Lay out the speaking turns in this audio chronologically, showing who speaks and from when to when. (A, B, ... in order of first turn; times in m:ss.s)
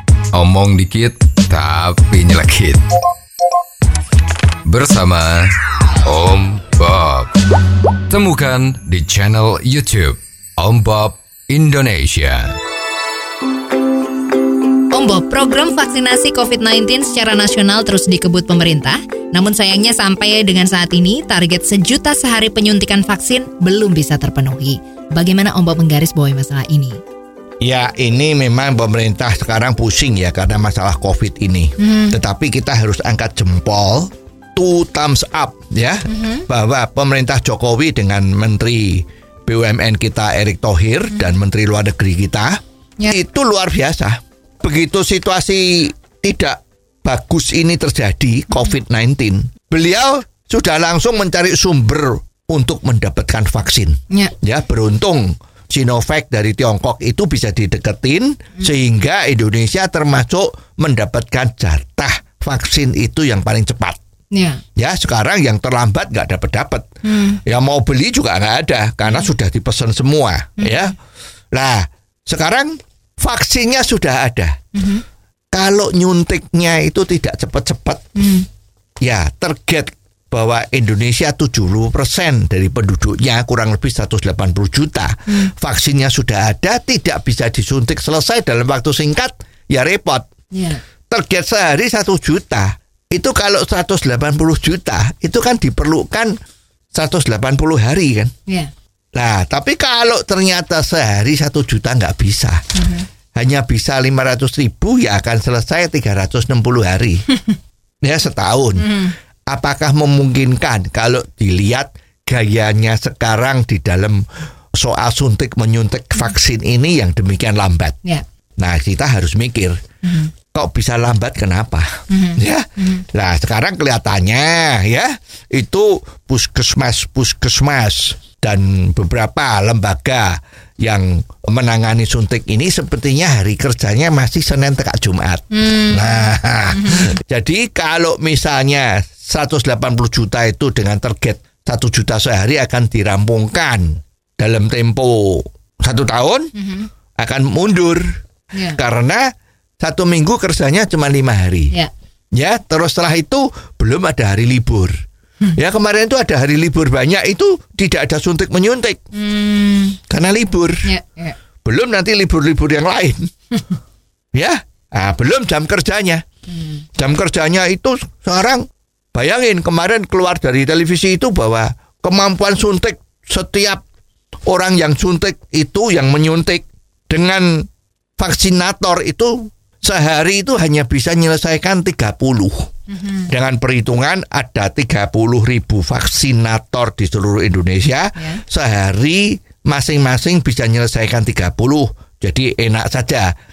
0:00.3-0:02.8 A
0:04.6-0:05.5 A
0:06.0-0:07.3 A
0:08.1-0:12.6 A
0:14.9-0:27.0 B
0:27.6-1:04.0 C
0:31.8-0:32.2 B
0:36.1-0:36.4 B
1:04.3-1:04.6 B
1:04.8-1:11.0 C
1:07.0-1:07.4 B
1:10.6-1:10.9 B
1:11.5-1:14.6 C
1:14.7-1:15.0 B
1:15.5-1:18.0 C
1:18.2-1:18.5 B
1:19.0-1:30.3 C
1:30.5-1:30.8 B
1:31.1-1:36.3 C
1:36.9-1:38.3 C
1:38.5-1:38.7 B
1:39.1-1:42.6 C
1:42.8-1:43.0 B
1:43.3-1:47.2 C
1:48.0-1:58.0 C
1:48.8-1:49.1 B
1:58.6-1:59.8 C
2:00.0-2:00.3 B
2:00.5-2:26.5 C
2:02.1-2:03.0 B
2:15.5-2:17.1 B
2:26.5-2:26.9 B
2:27.2-2:28.1 C
2:28.5-2:28.8 B
2:28.7-2:31.7 C
2:32.3-2:34.9 C
2:35.5-2:39.0 C
2:39.1-2:40.0 B
2:40.1-2:40.9 C
2:40.8-2:41.4 B
2:41.6-2:43.3 C
2:44.3-2:46.2 C
2:46.5-2:46.8 B
2:47.0-2:53.8 C
2:54.4-3:02.7 C
3:02.9-3:03.3 B
3:03.3-3:13.3 C